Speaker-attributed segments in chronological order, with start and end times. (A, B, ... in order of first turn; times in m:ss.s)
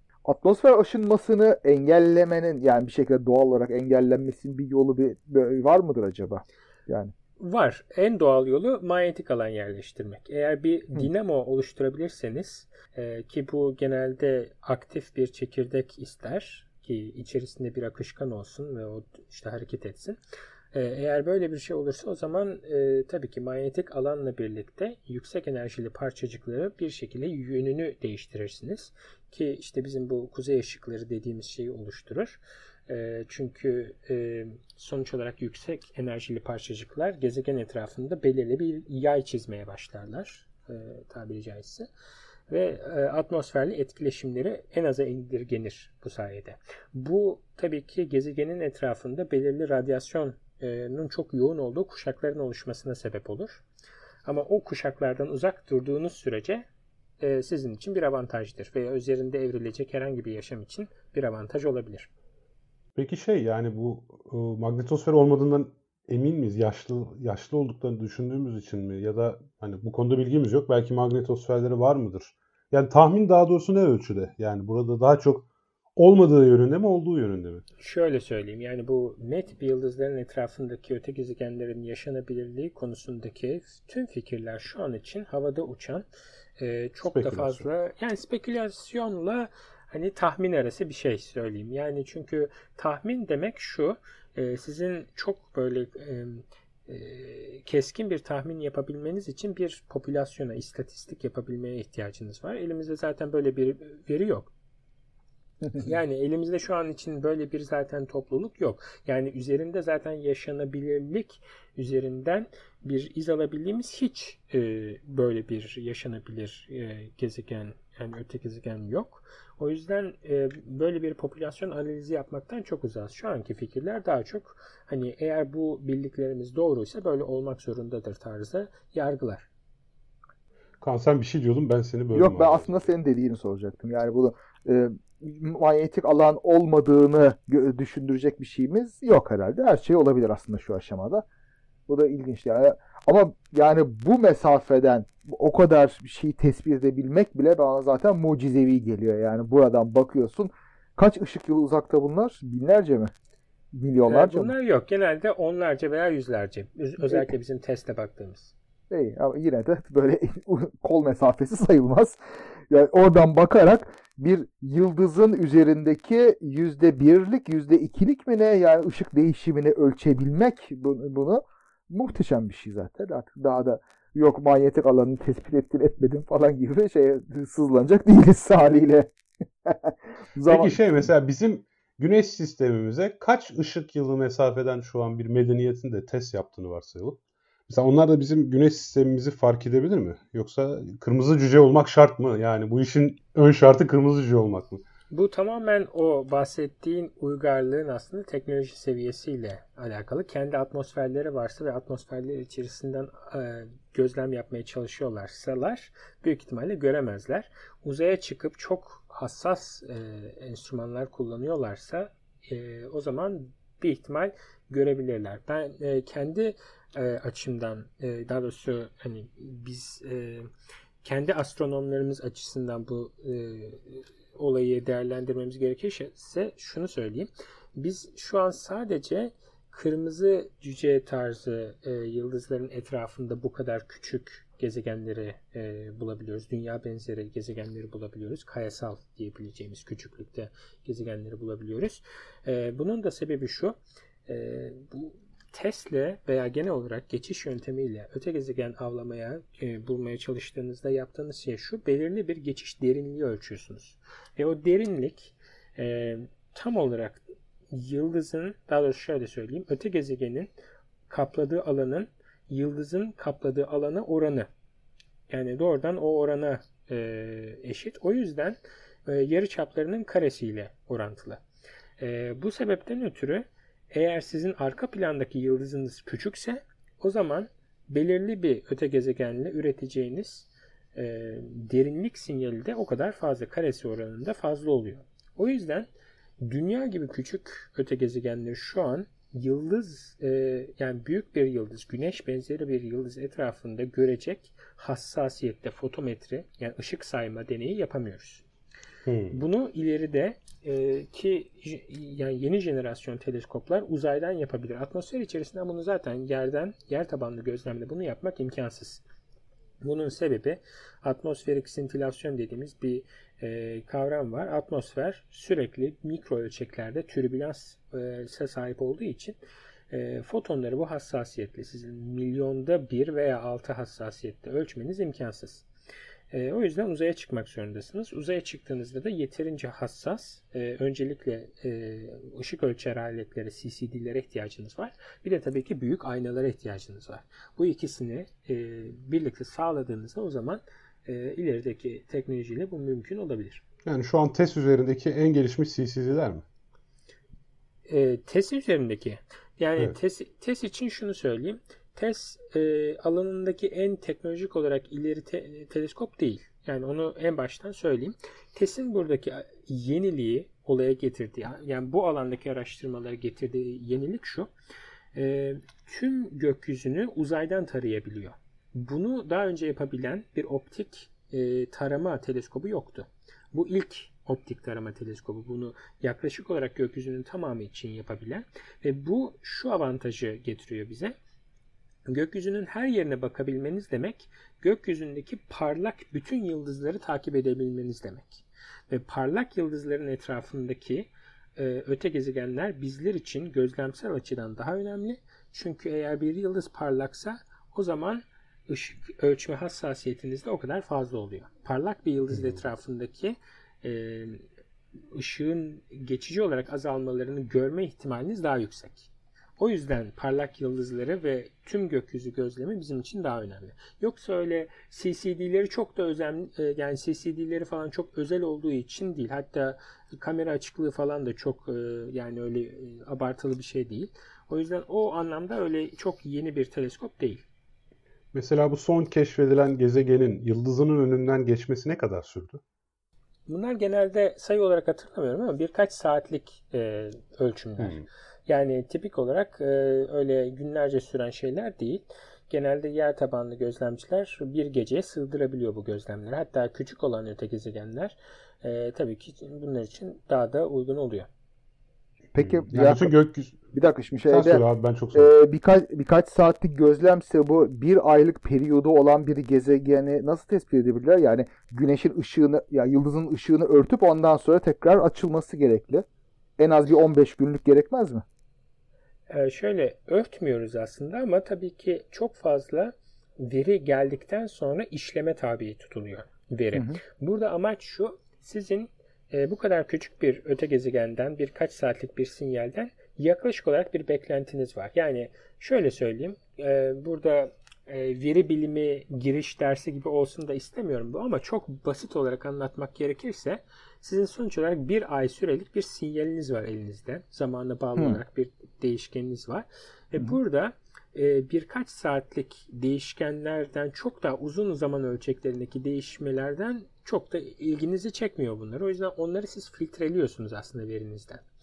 0:00.2-0:07.1 A
0:07.4-0:20.2 B
0:20.7-0:41.9 B
0:42.5-0:53.6 B
0:54.2-0:56.6 B
0:57.2-1:02.1 B
1:02.9-1:17.6 C
1:17.8-1:26.0 B
1:26.6-1:44.5 B
1:27.0-1:27.6 C
1:45.8-2:09.5 B
2:10.8-2:12.9 C
2:12.1-2:21.2 A
2:21.9-2:33.1 A
2:33.7-2:34.5 A
2:34.0-2:38.5 B
2:37.0-2:37.3 A
2:38.9-2:42.2 A
2:42.7-2:59.1 A
2:59.6-3:00.8 A
3:00.4-3:14.8 C
3:15.1-3:40.5 B
3:41.0-4:20.5 B
4:21.1-4:24.5 B
4:25.3-4:31.4 B
4:32.0-4:45.9 B
4:46.4-4:58.4 B
4:59.0-4:59.4 C
4:59.3-5:09.0 B
5:09.8-5:19.4 B
5:19.9-5:25.6 B
5:26.3-5:43.6 B
5:43.8-5:46.4 C
5:47.9-6:04.5 B
6:05.1-6:21.1 B
6:22.1-6:44.4 B
6:42.3-6:42.6 C
6:45.1-7:07.4 B
7:08.3-7:12.6 C
7:13.5-7:31.3 B
7:17.8-7:18.0 C
7:32.3-7:33.1 A
7:32.4-7:33.7 C
7:33.7-7:46.0 A
7:34.3-7:35.3 C
7:46.6-7:48.2 A
7:49.3-8:31.4 B
7:56.7-7:57.0 A
8:18.0-8:18.2 A